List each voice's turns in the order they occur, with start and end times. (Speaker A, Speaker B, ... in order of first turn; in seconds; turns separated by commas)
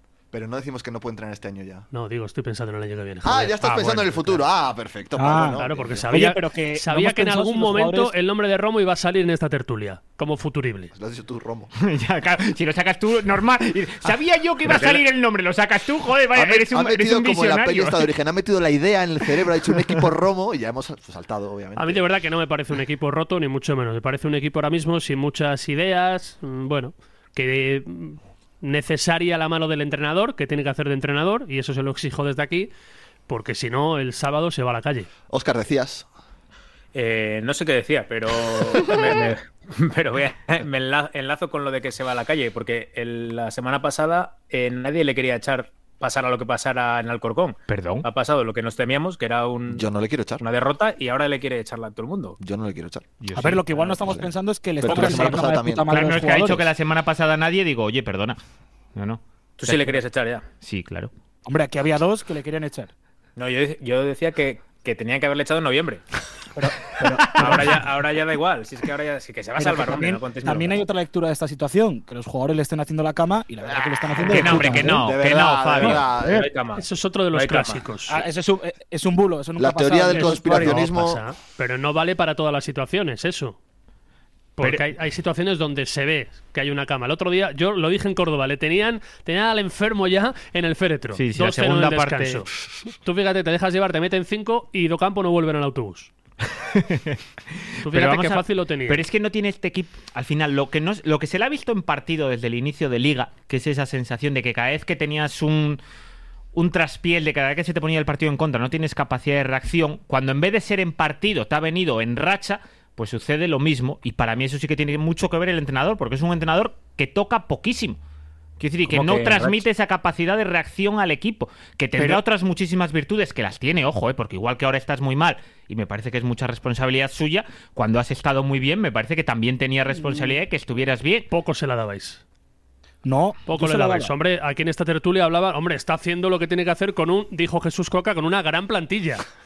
Speaker A: 0.3-1.9, Speaker B: 1.9-4.4, Speaker A: 3.2-6.1, Speaker C: 5.2-8.1, Speaker B: 5.6-10.9, Speaker A: 10.9-11.7, Speaker D: 11.8-18.1, Speaker A: 14.6-15.0, Speaker A: 16.4-22.1, Speaker B: 21.8-32.7, Speaker B: 33.3-35.1, Speaker A: 35.3-36.1, Speaker E: 36.9-49.9, Speaker D: 47.7-48.1, Speaker A: 49.7-50.4, Speaker E: 50.4-52.4, Speaker A: 52.4-53.1, Speaker D: 53.2-53.6, Speaker C: 53.4-56.6, Speaker A: 54.0-54.3, Speaker A: 54.8-55.9, Speaker D: 54.9-55.3, Speaker D: 55.9-58.4, Speaker D: 59.0-60.0, Speaker E: 59.6-60.4, Speaker D: 60.6-61.1, Speaker C: 61.5-62.9, Speaker E: 63.4-66.0, Speaker C: 66.5-67.9, Speaker E: 67.3-70.8, Speaker C: 69.6-75.1, Speaker D: 74.3-76.1, Speaker E: 74.4-74.8, Speaker A: 74.8-76.5, Speaker C: 75.8-76.5, Speaker E: 76.2-77.8, Speaker B: 76.8-78.2, Speaker C: 78.1-80.8, Speaker A: 79.6-81.2, Speaker B: 80.1-83.6, Speaker B: 84.6-92.5, Speaker D: 84.6-84.8, Speaker D: 91.2-92.5, Speaker B: 93.0-96.1, Speaker D: 96.7-105.8, Speaker B: 97.8-99.0, Speaker D: 106.5-118.0, Speaker D: 118.6-131.3, Speaker E: 118.9-119.6, Speaker B: 131.3-132.2, Speaker C: 133.0-134.1, Speaker B: 133.5-139.2